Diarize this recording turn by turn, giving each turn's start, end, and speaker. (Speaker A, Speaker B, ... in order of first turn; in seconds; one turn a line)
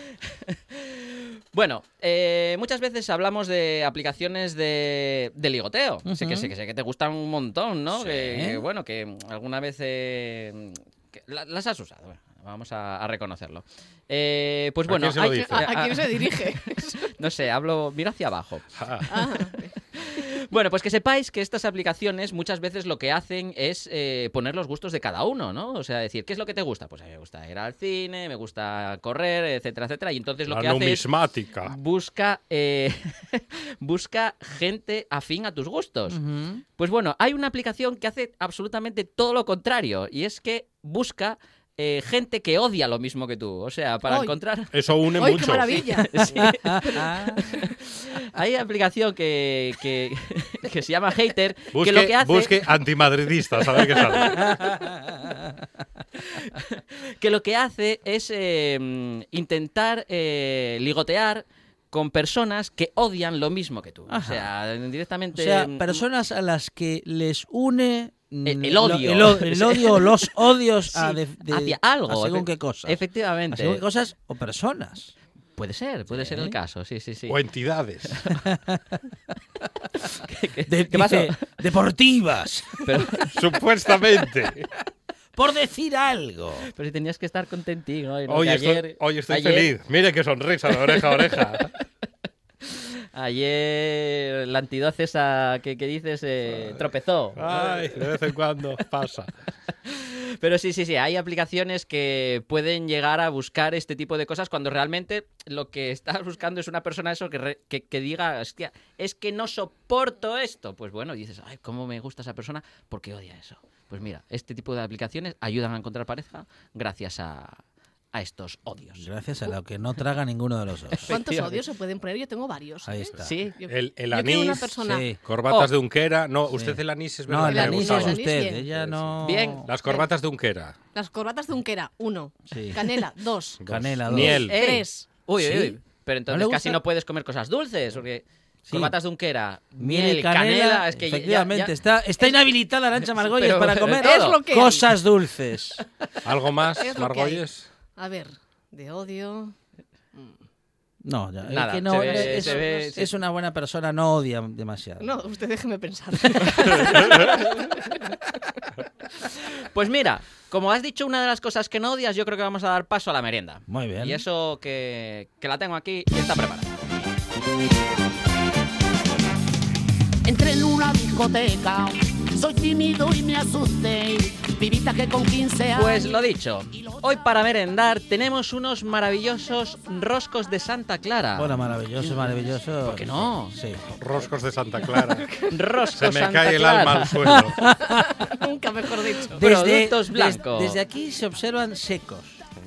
Speaker A: 0.3-19.4
Speaker B: 6.1-6.5
Speaker B: 7.9-8.6
Speaker C: 14.9-15.7
Speaker D: 15.4-17.1
Speaker C: 18.8-19.1
Speaker D: 19.1-19.7
Speaker A: 19.9-31.0
Speaker C: 30.5-31.8
Speaker A: 31.7-36.2
Speaker B: 36.1-36.6
Speaker A: 36.8-44.7
Speaker D: 44.1-44.3
Speaker C: 44.7-45.8
Speaker D: 45.1-46.2
Speaker A: 45.4-52.6
Speaker B: 46.2-47.4
Speaker C: 51.7-54.5
Speaker B: 54.0-55.7
Speaker A: 56.3-66.0
Speaker B: 64.1-64.5
Speaker B: 65.3-75.1
Speaker A: 68.5-73.8
Speaker A: 75.6-77.4
Speaker B: 76.1-76.6
Speaker C: 77.3-78.3
Speaker B: 78.3-79.0
Speaker A: 80.2-81.4
Speaker B: 80.7-83.1
Speaker A: 82.8-83.3
Speaker C: 83.3-84.7
Speaker B: 85.3-86.7
Speaker A: 86.7-89.7
Speaker C: 88.3-91.7
Speaker A: 90.8-91.3
Speaker A: 92.6-98.1
Speaker C: 97.4-99.3
Speaker A: 99.9-117.6
Speaker A: 118.1-119.0
Speaker B: 119.0-121.2
Speaker A: 120.9-121.6
Speaker D: 121.1-125.0
Speaker B: 122.8-123.3
Speaker A: 123.2-123.5
Speaker C: 123.7-128.2
Speaker B: 124.8-125.2
Speaker B: 126.5-129.7
Speaker D: 127.5-128.7
Speaker C: 128.7-130.8
Speaker A: 129.2-129.6
Speaker D: 130.9-135.1
Speaker B: 132.5-133.0
Speaker C: 133.6-134.6
Speaker B: 133.7-134.5
Speaker A: 134.4-141.7
Speaker B: 135.4-135.8
Speaker B: 136.3-136.8
Speaker B: 138.7-138.9
Speaker B: 139.8-145.8
Speaker A: 143.0-144.4
Speaker D: 143.9-144.9
Speaker C: 146.2-147.6
Speaker D: 146.8-147.4
Speaker D: 148.0-149.6
Speaker B: 151.0-155.2
Speaker A: 151.5-153.1
Speaker D: 152.0-152.9
Speaker D: 155.0-158.0
Speaker B: 156.7-157.0
Speaker A: 159.2-166.7
Speaker B: 163.7-164.2
Speaker E: 170.2-176.2
Speaker A: 175.7-181.6
Speaker B: 181.3-183.8
Speaker A: 182.8-183.6
Speaker C: 183.9-185.4
Speaker D: 185.0-185.4
Speaker A: 185.4-187.2
Speaker C: 185.9-187.6
Speaker B: 187.2-188.3
Speaker D: 188.2-189.4
Speaker A: 189.3-190.8
Speaker B: 189.3-192.4